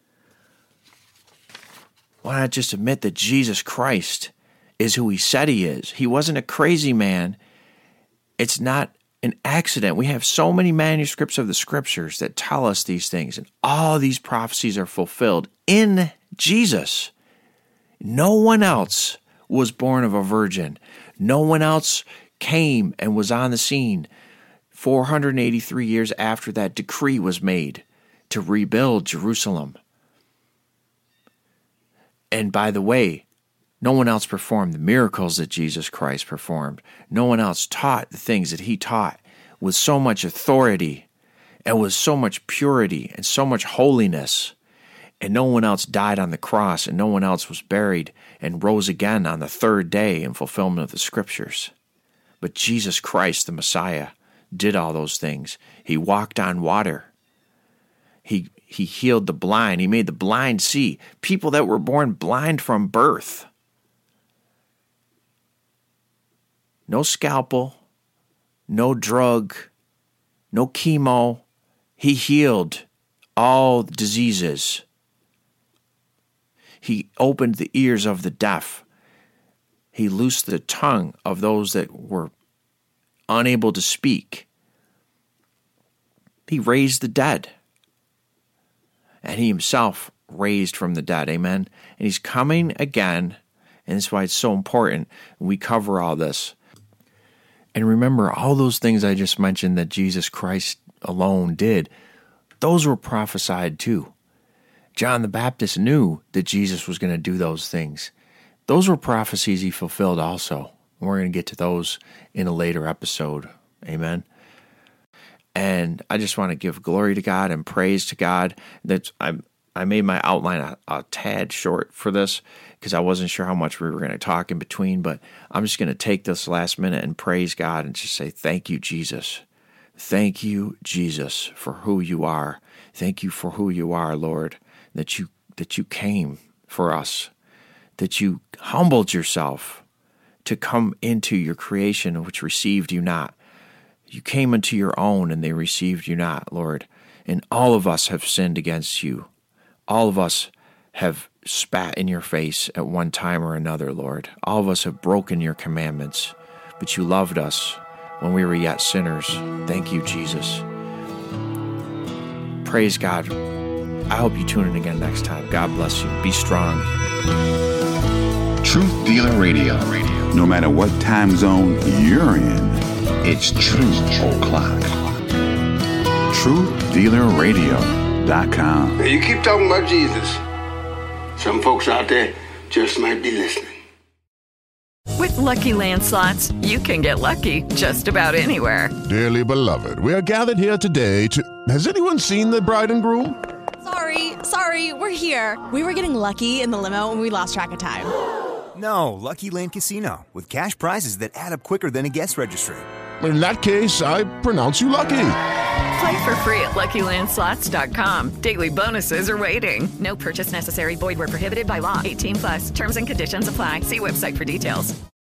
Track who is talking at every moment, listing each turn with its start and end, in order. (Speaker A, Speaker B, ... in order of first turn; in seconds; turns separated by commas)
Speaker A: 2.2-7.4, Speaker A: 8.4-17.1, Speaker A: 18.0-24.1, Speaker A: 24.7-29.8, Speaker A: 32.3-33.2, Speaker A: 33.8-41.0, Speaker A: 41.6-44.5, Speaker A: 45.2-51.7, Speaker A: 52.4-57.1, Speaker A: 58.2-63.5, Speaker A: 66.9-67.8, Speaker A: 68.7-69.7, Speaker A: 70.5-71.4, Speaker A: 72.0-72.8, Speaker A: 73.4-74.8, Speaker A: 76.8-78.8, Speaker A: 79.9-82.3, Speaker A: 83.3-84.5, Speaker A: 86.5-87.5, Speaker A: 89.2-96.5, Speaker A: 97.7-101.9, Speaker A: 102.6-104.1, Speaker A: 104.9-108.1, Speaker A: 108.7-114.2, Speaker A: 115.5-129.4, Speaker A: 130.0-137.3, Speaker A: 138.0-139.8, Speaker A: 140.4-143.3, Speaker A: 144.1-149.3, Speaker A: 149.9-160.7, Speaker A: 162.6-163.3, Speaker A: 164.1-166.9, Speaker B: 168.6-174.9, Speaker B: 176.3-179.1, Speaker C: 179.0-180.4, Speaker C: 181.4-183.7, Speaker D: 185.2-188.9, Speaker E: 189.0-193.4, Speaker F: 193.8-198.1, Speaker G: 198.7-202.9, Speaker E: 203.2-205.4, Speaker D: 205.9-214.9